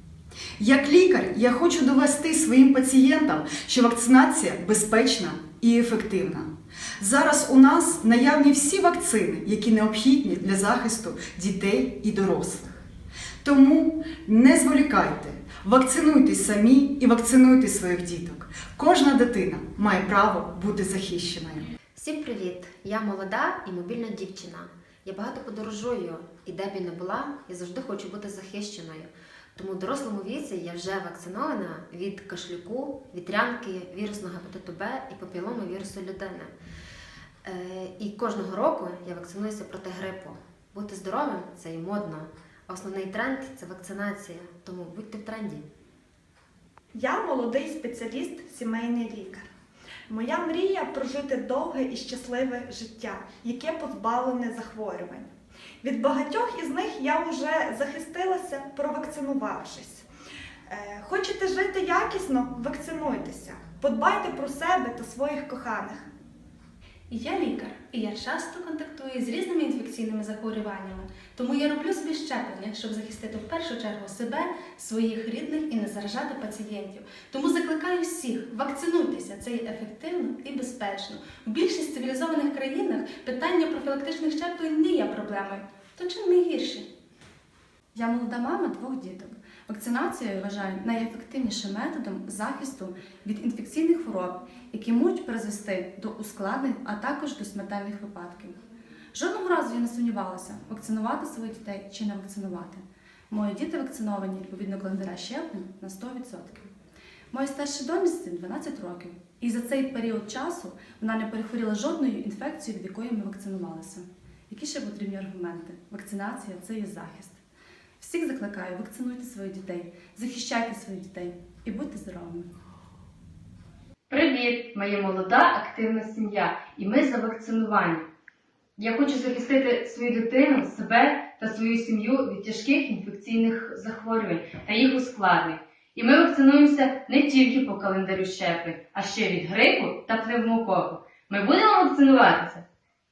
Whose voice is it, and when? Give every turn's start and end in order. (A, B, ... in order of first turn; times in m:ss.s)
0:00.6-0:12.8 A
0:13.4-0:21.7 A
0:21.9-0:36.5 B
0:37.4-0:45.6 B
0:46.9-0:49.5 C
0:50.1-0:55.3 C
0:55.8-1:00.0 C
1:00.7-1:06.0 C
1:07.1-1:26.8 D
1:27.9-1:38.6 E
1:39.1-1:46.6 E
1:47.3-1:57.4 E
1:58.0-2:02.5 E
2:04.1-2:08.0 F
2:08.8-2:22.6 F